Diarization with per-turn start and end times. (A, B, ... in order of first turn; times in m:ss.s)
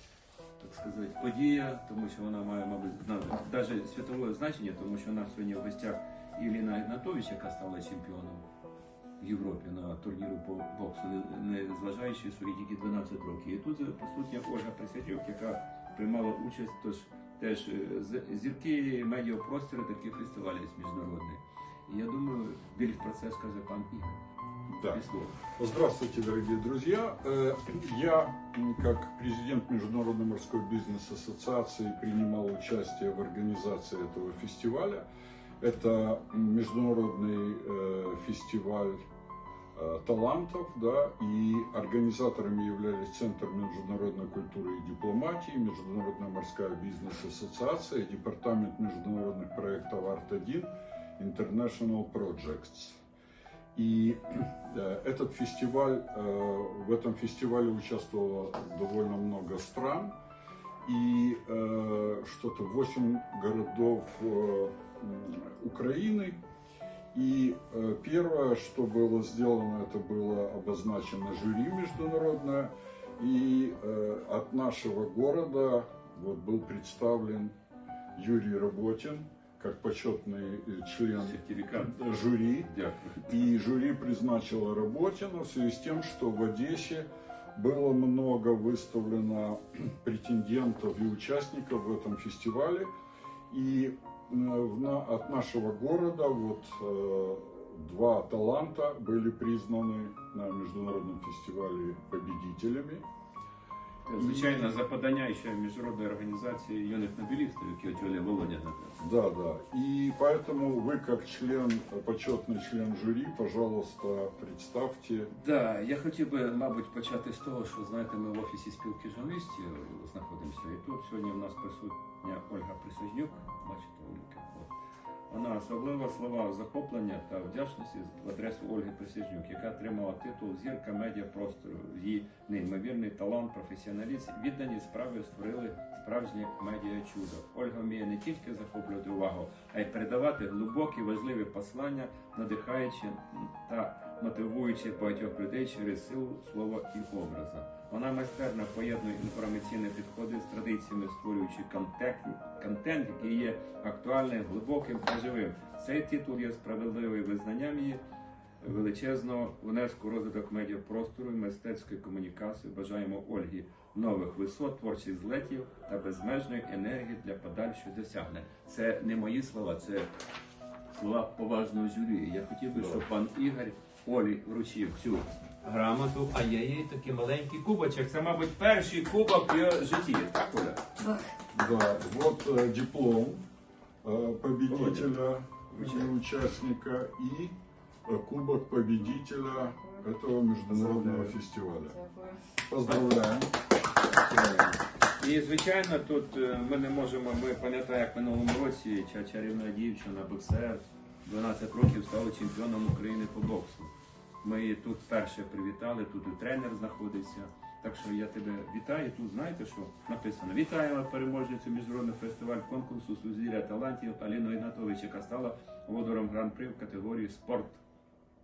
0:00.6-0:08.4 A
0:09.2-0:24.2 A
0:24.7-0:25.0 B
0:24.9-0:25.4 A
0:25.5-0:35.0 B
0:35.6-0:39.0 B
0:39.7-0:53.0 B
0:53.7-1:00.1 B
1:00.8-1:06.4 B
1:07.1-1:17.5 B
1:18.2-1:22.7 B
1:21.2-1:22.0 A
1:22.6-1:23.4 A
1:23.3-1:32.9 B
1:33.5-1:43.0 B
1:44.0-1:49.0 A
1:44.2-1:44.7 B
1:49.0-1:55.3 B
1:55.3-2:04.7 A
2:05.3-2:38.0 A
2:38.6-2:50.1 A
2:50.9-3:00.8 A
2:52.7-2:53.0 B
3:01.5-3:03.4 B
3:04.0-3:07.5 B
3:04.7-3:06.1 A
3:08.0-3:12.0 B
3:12.7-3:13.5 B
3:14.1-3:23.9 A
3:24.4-3:37.8 A